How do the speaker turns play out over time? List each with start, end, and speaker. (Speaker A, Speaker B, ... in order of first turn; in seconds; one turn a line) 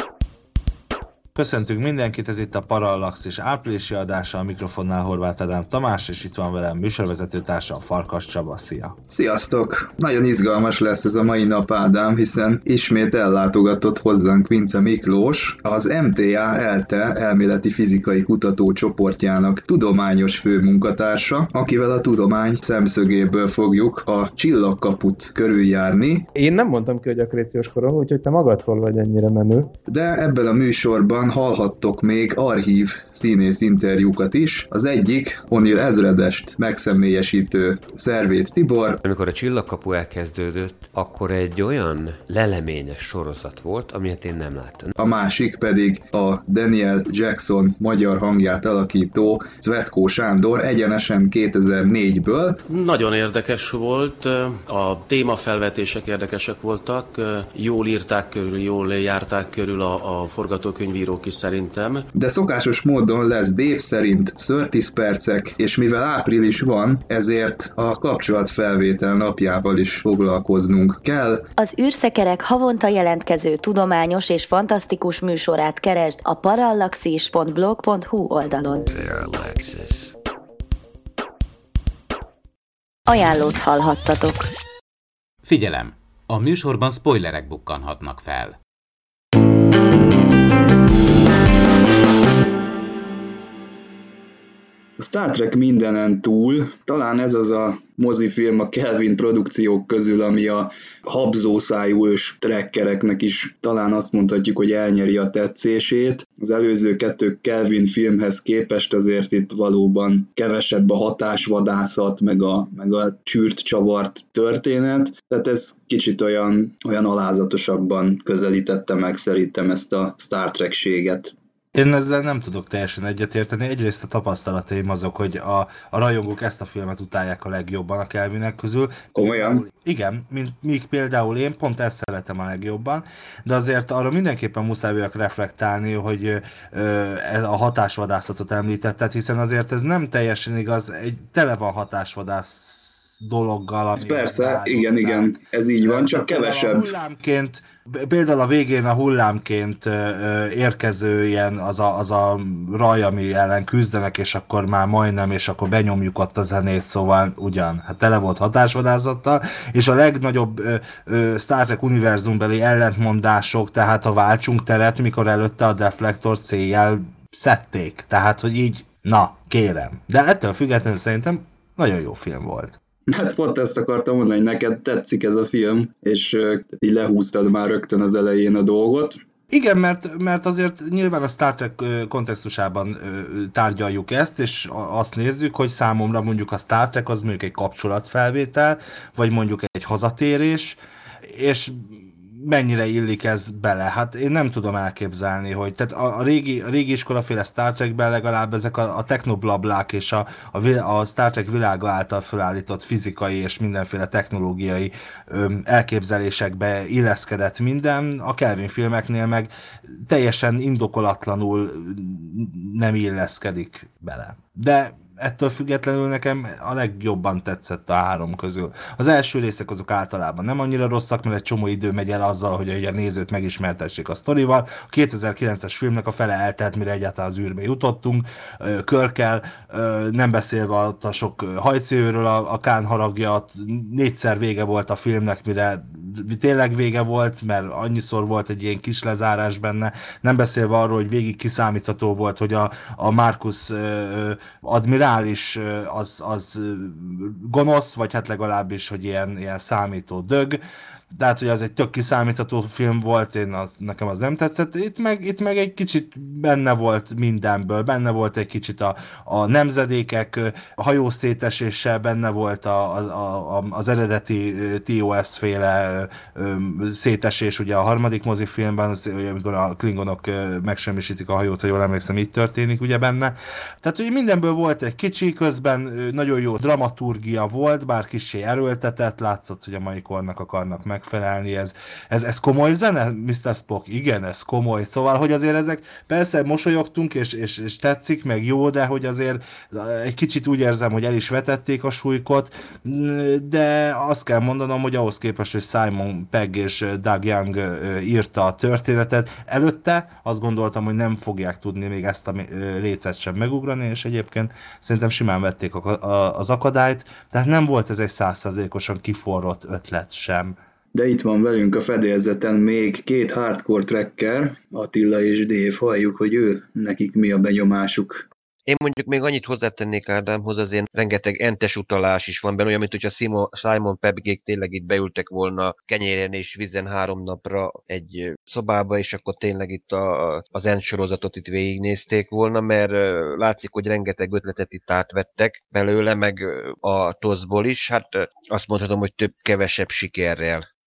Speaker A: 1.4-9.0
Speaker B: 9.1-26.3
Speaker C: 26.4-29.7
Speaker B: 29.9-39.0
Speaker D: 39.0-44.9
Speaker B: 45.0-52.6
Speaker E: 52.7-62.1
Speaker B: 62.1-71.5
Speaker F: 71.6-78.9
Speaker G: 78.9-80.1
Speaker F: 83.1-84.5
Speaker G: 85.4-88.6
Speaker B: 95.0-121.3
Speaker A: 121.7-172.8
Speaker B: 129.2-129.6
Speaker B: 144.0-146.9
Speaker B: 173.1-179.2
Speaker A: 179.5-250.6
Speaker A: 251.1-310.6
Speaker B: 310.9-318.3
Speaker H: 318.7-340.7